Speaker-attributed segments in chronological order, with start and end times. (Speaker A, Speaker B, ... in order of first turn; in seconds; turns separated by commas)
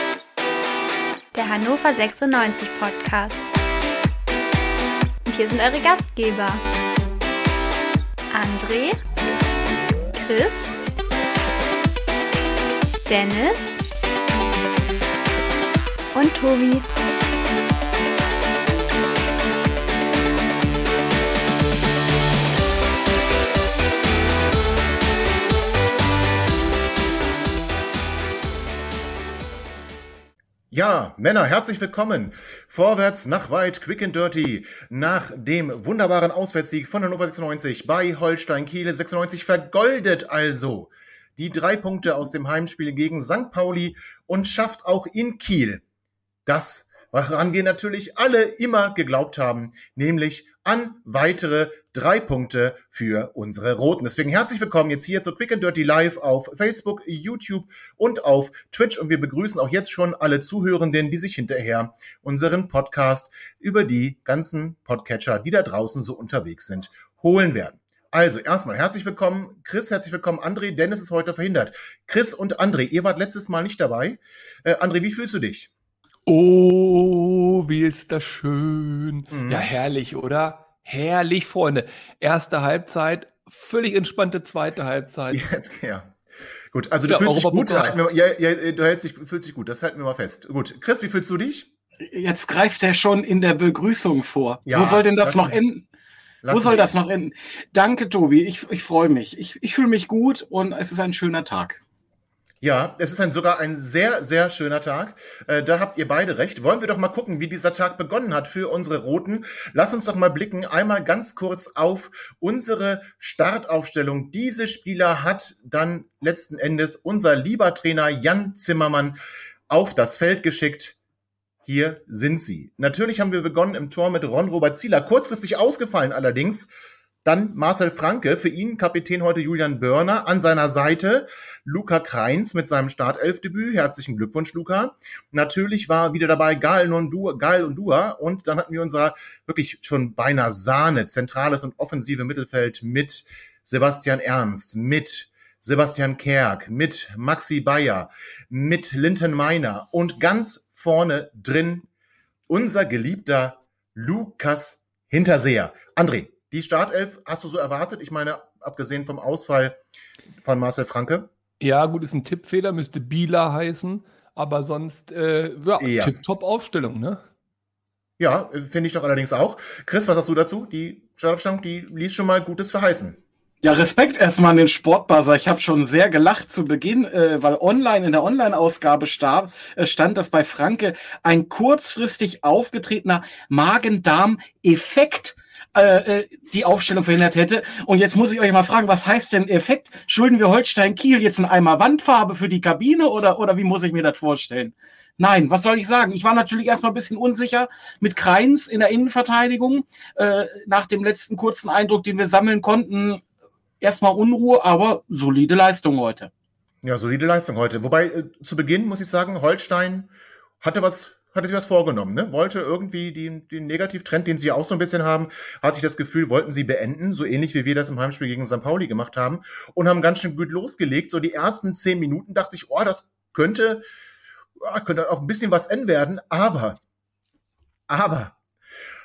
Speaker A: 1.3-3.5, Speaker A: 5.2-6.6, Speaker A: 8.3-9.0, Speaker A: 10.1-10.8, Speaker A: 13.1-13.8, Speaker A: 16.1-16.9, Speaker B: 30.7-45.8, Speaker B: 46.5-75.7, Speaker C: 76.3-85.5, Speaker B: 79.3-79.7, Speaker B: 85.3-86.2, Speaker B: 86.7-91.7, Speaker C: 87.1-88.0, Speaker D: 92.1-95.9, Speaker B: 94.7-95.6, Speaker B: 96.4-97.0, Speaker D: 96.5-101.8, Speaker B: 102.6-119.2, Speaker B: 119.7-121.0, Speaker B: 121.6-126.7, Speaker B: 127.2-151.9, Speaker B: 152.5-159.8, Speaker B: 160.4-161.3, Speaker C: 161.6-167.2, Speaker B: 165.8-166.2, Speaker B: 168.2-173.2, Speaker D: 173.6-203.2, Speaker D: 203.8-206.3, Speaker B: 206.8-223.8, Speaker B: 224.6-226.8, Speaker B: 227.9-228.4